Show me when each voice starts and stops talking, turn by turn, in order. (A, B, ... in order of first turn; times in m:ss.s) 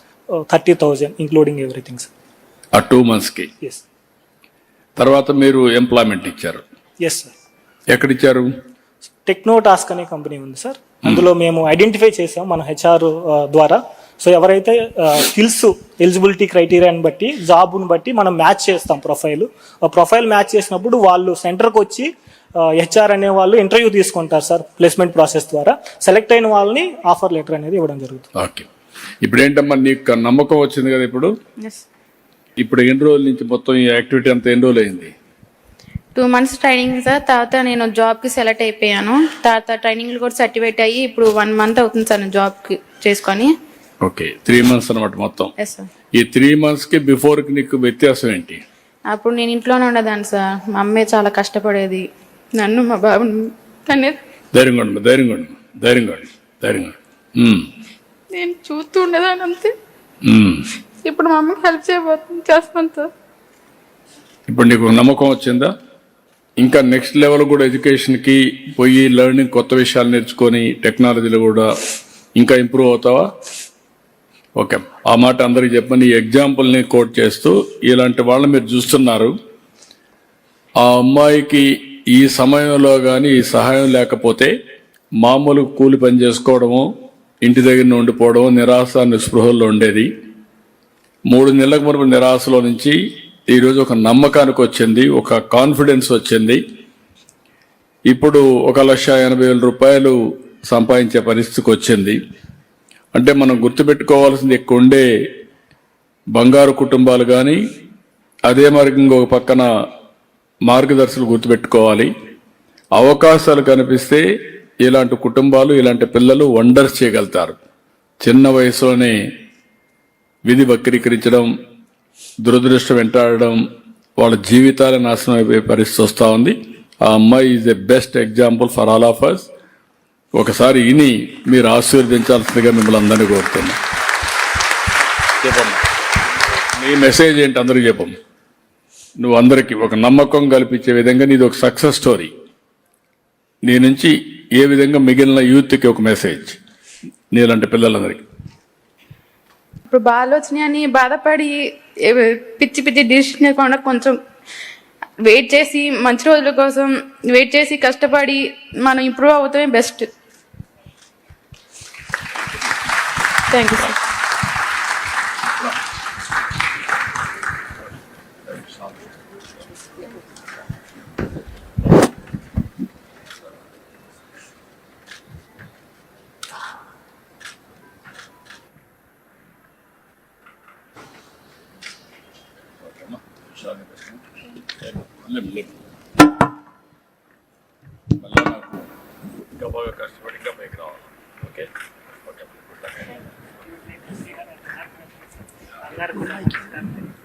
0:00.3-0:02.1 A
0:02.7-0:03.5 B
0:05.0-0:06.6 B
0:07.0-0:07.3 A
0:07.9-0:08.5 B
0:09.2-0:28.3 A
0:28.4-0:28.7 B
0:29.2-0:31.3 B
0:32.6-0:35.1 B
0:36.1-0:43.5 C
0:44.0-0:45.5 B
0:45.6-0:45.9 C
0:46.1-0:48.6 B
0:49.1-0:52.0 C
0:52.6-0:54.2 C
0:54.5-0:57.7 B
0:58.3-0:59.7 C
1:00.2-1:00.6 B
1:01.0-1:03.1 C
1:04.5-1:05.7 B
1:06.6-1:11.7 B
1:12.4-1:13.3 B
1:14.6-1:19.3 B
1:20.8-1:24.5 B
1:25.2-1:26.8 B
1:27.4-1:30.1 B
1:31.3-1:36.6 B
1:38.1-1:42.2 B
1:43.1-1:45.0 B
1:46.3-1:47.6 B
1:48.4-1:49.7 B
1:50.6-1:52.1 B
1:53.0-1:54.2 B
1:54.8-1:57.6 B
1:58.2-1:59.2 B
2:00.4-2:01.5 B
2:02.4-2:03.6 B
2:04.2-2:09.5 B
2:10.3-2:13.8 B
2:15.4-2:15.8 B
2:16.8-2:18.1 B
2:19.2-2:22.3 B
2:23.6-2:26.6 B
2:27.3-2:28.2 B
2:29.9-2:34.2 C
2:35.2-2:40.1 C
2:43.5-2:44.0 C
3:02.8-3:04.2 B
3:04.8-3:05.7 B
3:08.2-3:08.9 B
3:09.6-3:11.7 B
3:12.2-3:13.2 B
3:15.9-3:16.8 B